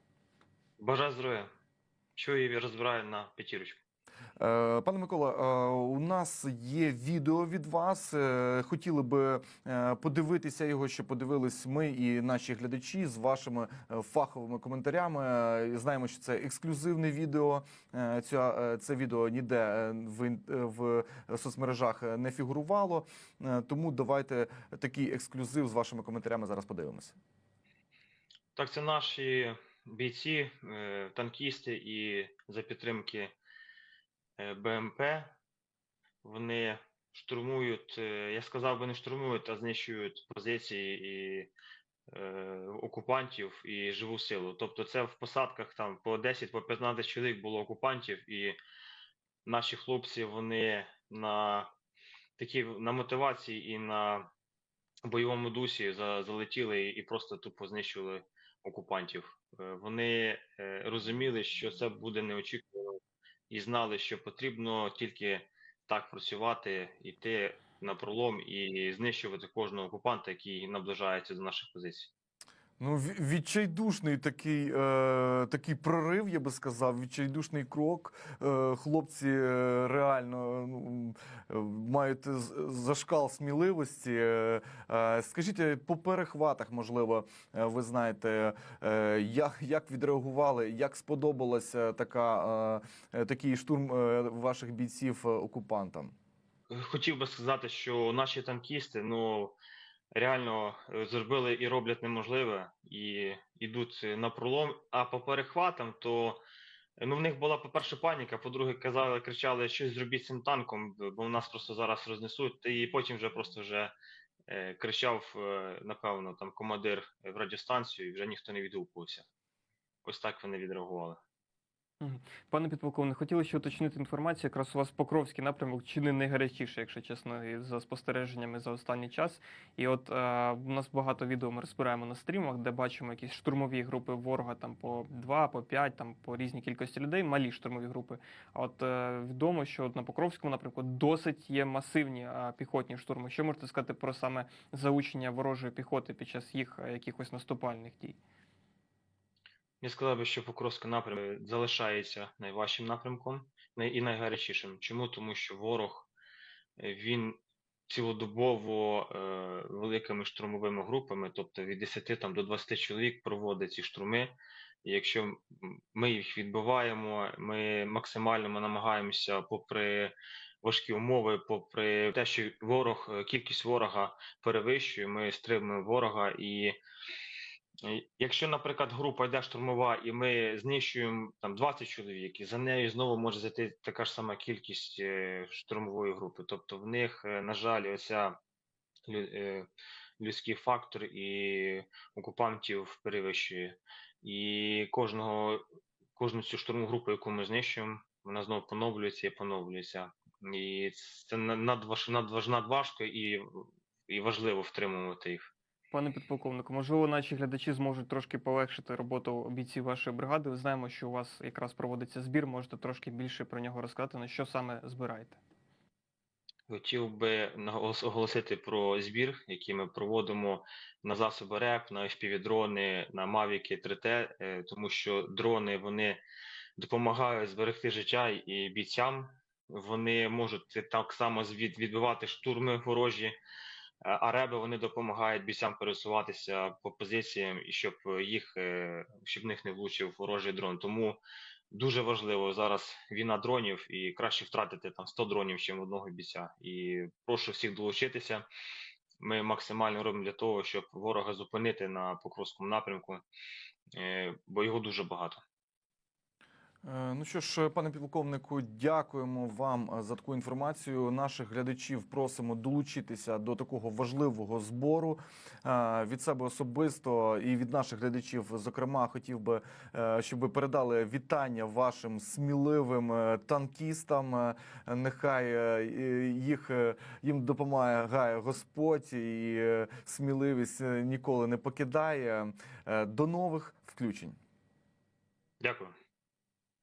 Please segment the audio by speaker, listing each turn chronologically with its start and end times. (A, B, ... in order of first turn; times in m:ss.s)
0:00.8-0:01.5 A
0:02.2-0:03.8 A
0:04.4-0:27.2 B
0:28.6-0:33.3 A
0:34.4-0:35.4 A
0:36.2-0:41.5 A
0:42.1-0:48.6 A
0:49.4-0:51.7 A
0:52.4-0:54.3 A
0:55.0-1:03.0 A
1:03.5-1:12.1 A
1:12.8-1:36.1 B
1:36.7-1:39.6 A
1:40.1-1:46.4 A
1:47.0-1:53.9 A
1:54.5-1:59.2 A
2:00.0-2:01.2 A
2:02.0-2:28.2 C
2:29.8-2:36.1 A
2:36.8-2:56.8 A
2:57.8-3:08.4 A
3:09.1-3:09.7 A
3:10.2-3:15.6 A
3:16.2-3:25.5 A
3:25.9-3:35.4 C
3:36.7-3:46.2 A
3:46.8-3:53.4 A
3:54.0-4:01.2 A
4:01.7-4:08.5 A
4:09.2-4:13.2 A
4:14.0-4:15.4 A
4:16.8-4:44.4 B
4:45.6-4:45.9 A